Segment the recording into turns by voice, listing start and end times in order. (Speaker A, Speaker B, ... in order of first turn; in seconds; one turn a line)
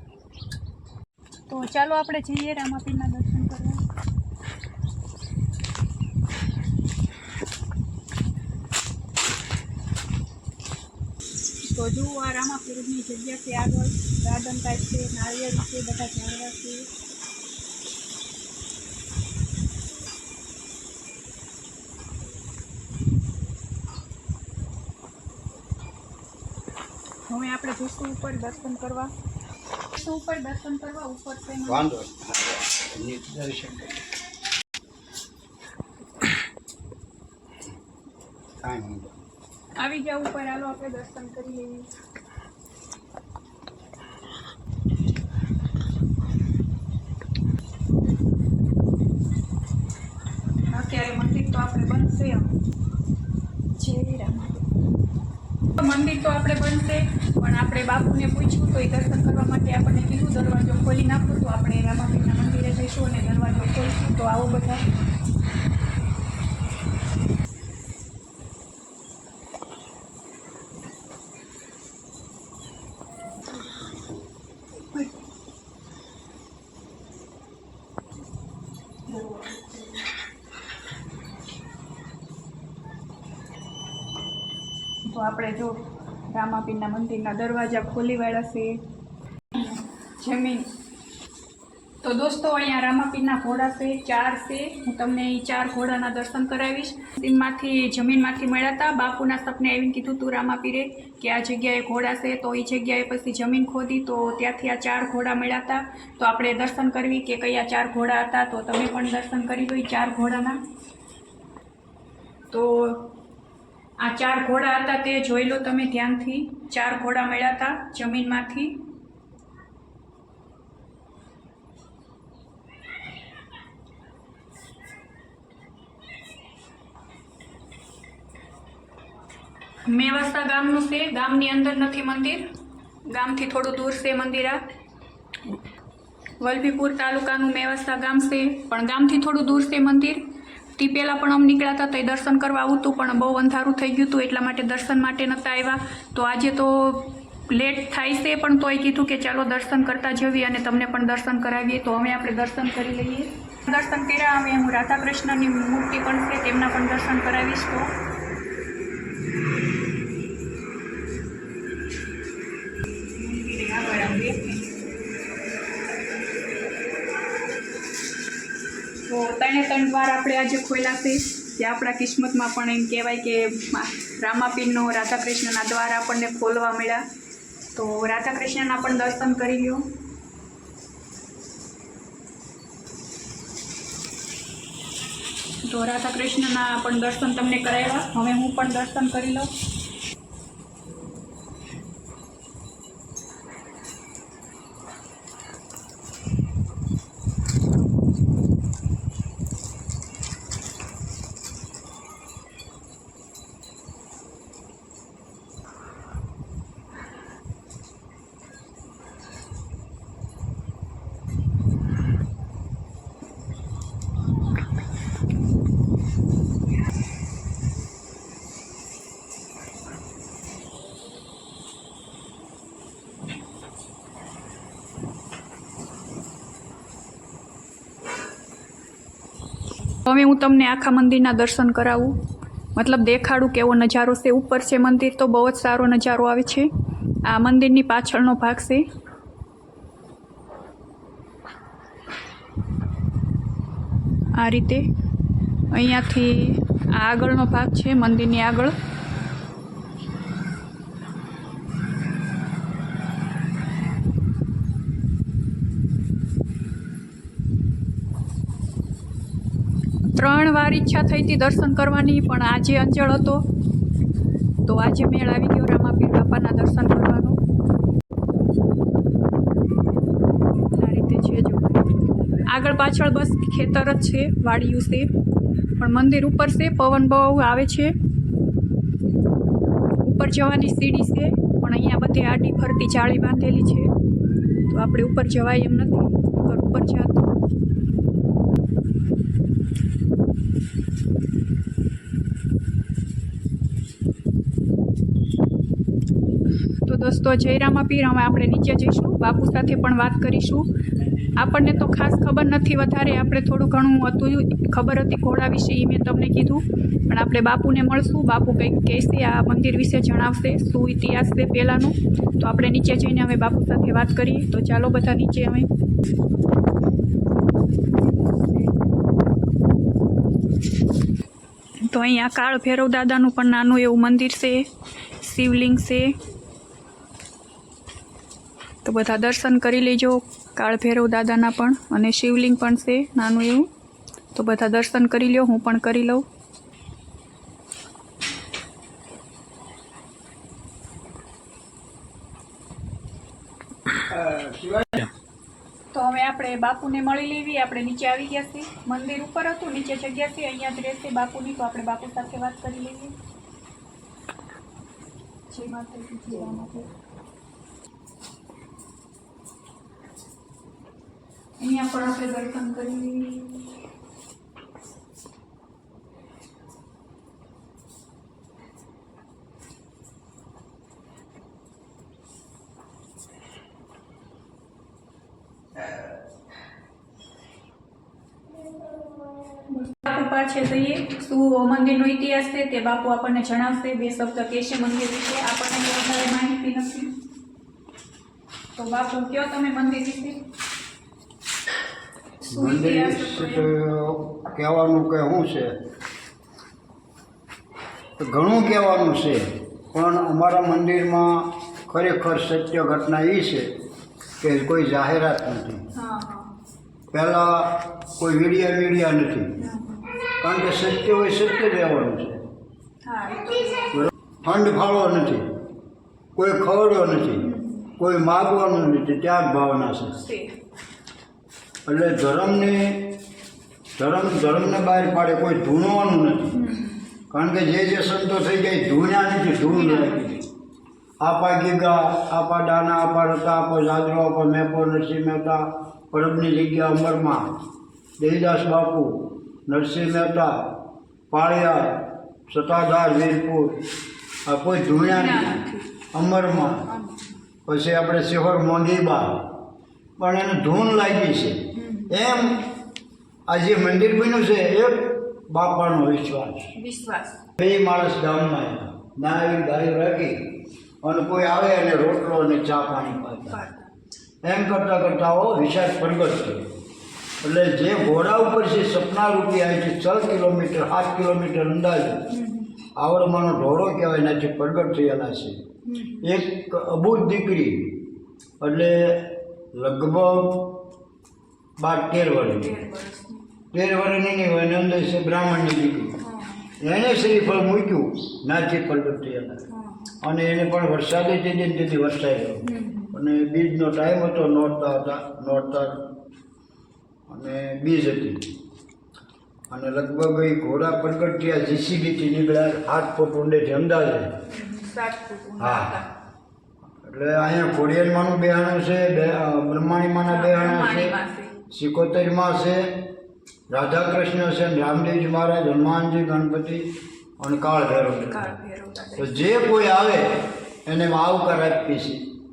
Speaker A: 1.5-3.8
Speaker A: 11.6-16.9
Speaker A: 27.3-29.1
Speaker A: 29.9-31.8
Speaker B: 31.7-34.0
Speaker B: 38.6-39.1
Speaker A: 39.8-41.9
Speaker A: 50.7-52.5
Speaker A: 53.8-54.6
Speaker A: 55.8-64.8
Speaker A: 74.8-75.1
Speaker A: 79.1-79.9
Speaker A: 85.0-88.8
Speaker A: 89.5-90.7
Speaker A: 92.0-110.6
Speaker A: 112.5-113.1
Speaker A: 114.0-118.9
Speaker A: 129.8-132.4
Speaker A: 133.1-134.6
Speaker A: 136.4-140.2
Speaker A: 140.8-157.9
Speaker A: 163.1-164.7
Speaker A: 169.1-177.1
Speaker A: 177.7-179.9
Speaker A: 185.6-189.5
Speaker A: 230.0-232.2
Speaker A: 232.7-236.7
Speaker A: 237.2-238.8
Speaker A: 244.3-244.9
Speaker A: 245.7-248.7
Speaker A: 260.1-263.4
Speaker A: 264.6-267.4
Speaker A: 270.7-271.9
Speaker A: 272.4-275.1
Speaker A: 275.8-277.9
Speaker A: 280.0-283.9
Speaker A: 284.7-287.4
Speaker A: 296.8-300.7
Speaker A: 301.4-315.7
Speaker A: 321.8-326.1
Speaker A: 328.8-333.7
Speaker A: 334.3-336.2
Speaker B: 344.1-345.0
Speaker A: 345.9-353.1
Speaker A: 355.5-356.9
Speaker A: 361.6-363.5
Speaker A: 379.6-387.1
Speaker A: 388.7-390.4
Speaker A: 392.4-393.7
Speaker B: 392.5-395.8
Speaker B: 398.2-403.7
Speaker B: 404.4-405.9
Speaker A: 405.9-406.6
Speaker B: 407.1-409.5
Speaker A: 409.6-410.1
Speaker B: 410.4-412.4
Speaker A: 413.0-414.1
Speaker B: 413.9-415.5
Speaker B: 416.3-420.2
Speaker A: 417.4-417.9
Speaker A: 420.1-420.6
Speaker B: 421.9-423.2
Speaker B: 423.9-426.6
Speaker A: 426.5-427.0
Speaker B: 427.3-430.4
Speaker A: 429.7-430.4
Speaker B: 431.2-437.6
Speaker B: 438.2-443.9
Speaker B: 444.4-445.6
Speaker A: 445.0-445.9
Speaker B: 446.1-446.9
Speaker A: 446.9-447.4
Speaker B: 447.7-449.6
Speaker B: 450.2-452.6
Speaker A: 451.7-452.2
Speaker B: 453.5-456.7
Speaker A: 456.8-457.4
Speaker B: 457.6-463.6
Speaker A: 463.2-463.9
Speaker B: 464.4-466.7
Speaker B: 467.4-472.3
Speaker A: 472.3-472.8
Speaker B: 472.9-475.6
Speaker A: 475.8-476.3
Speaker B: 476.2-480.9
Speaker B: 481.8-482.7
Speaker A: 482.4-483.4
Speaker B: 483.7-486.1
Speaker A: 486.2-486.7
Speaker B: 486.8-489.6
Speaker A: 489.7-490.1
Speaker B: 490.2-496.2
Speaker A: 492.6-493.1
Speaker B: 497.3-498.6
Speaker B: 499.7-504.4
Speaker A: 504.4-506.1
Speaker B: 505.6-506.0
Speaker B: 506.9-511.1
Speaker A: 510.3-511.6
Speaker B: 511.7-513.1
Speaker B: 513.7-518.5
Speaker A: 518.3-519.4
Speaker B: 519.2-522.4